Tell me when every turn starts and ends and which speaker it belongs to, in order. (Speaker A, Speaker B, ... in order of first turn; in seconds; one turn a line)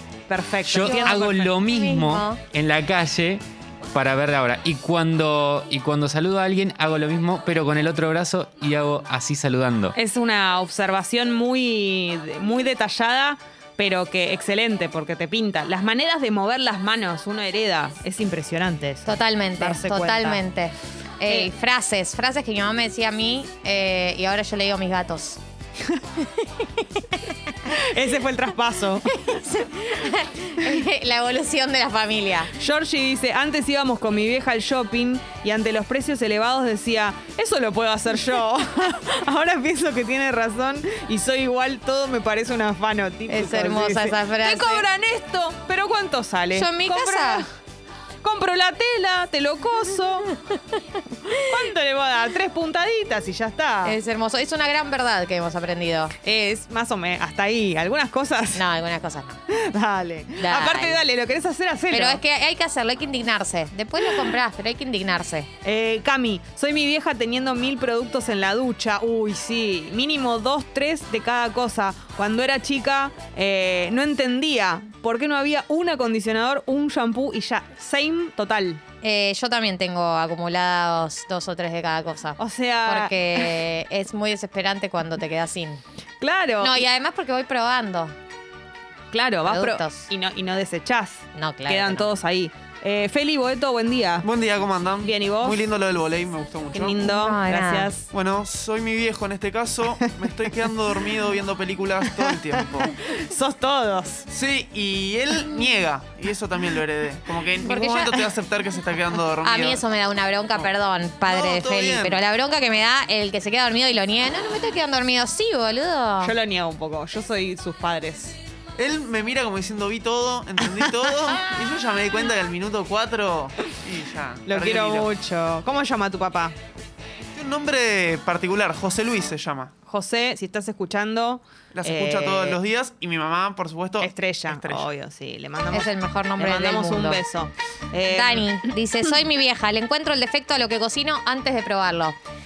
Speaker A: 0.3-1.5
Speaker B: 0.6-3.4
Speaker C: 0.8-2.4
Speaker B: 3.9-9.9
Speaker A: 9.9-20.4
Speaker C: 19.1-25.4
Speaker A: 21.3-21.5
Speaker C: 26.2-27.3
Speaker A: 27.7-29.3
Speaker C: 29.1-32.5
Speaker A: 32.6-47.5
Speaker C: 43.3-44.9
Speaker C: 46.5-47.5
Speaker A: 48.2-50.4
Speaker C: 50.5-50.8
Speaker C: 51.3-51.6
Speaker A: 51.3-54.0
Speaker C: 53.9-56.1
Speaker A: 56.2-58.6
Speaker C: 58.5-59.4
Speaker A: 59.5-62.2
Speaker C: 60.4-61.0
Speaker C: 61.9-65.5
Speaker A: 64.0-64.3
Speaker A: 65.6-78.8
Speaker C: 79.0-85.8
Speaker A: 82.4-83.6
Speaker A: 86.2-86.8
Speaker C: 86.6-88.1
Speaker A: 89.1-94.3
Speaker C: 89.5-90.1
Speaker C: 91.3-92.1
Speaker D: 94.3-97.0
Speaker A: 95.0-95.6
Speaker A: 96.7-98.1
Speaker C: 97.0-97.9
Speaker D: 98.1-102.9
Speaker A: 100.0-100.5
Speaker A: 102.1-104.3
Speaker D: 104.3-109.8
Speaker C: 107.6-108.4
Speaker C: 109.4-116.3
Speaker D: 111.3-112.2
Speaker A: 116.2-118.4
Speaker D: 118.8-125.1
Speaker A: 124.5-126.5
Speaker D: 127.3-129.7
Speaker A: 129.9-132.6
Speaker D: 131.7-134.9
Speaker A: 134.0-138.6
Speaker C: 135.7-137.2
Speaker C: 138.1-142.2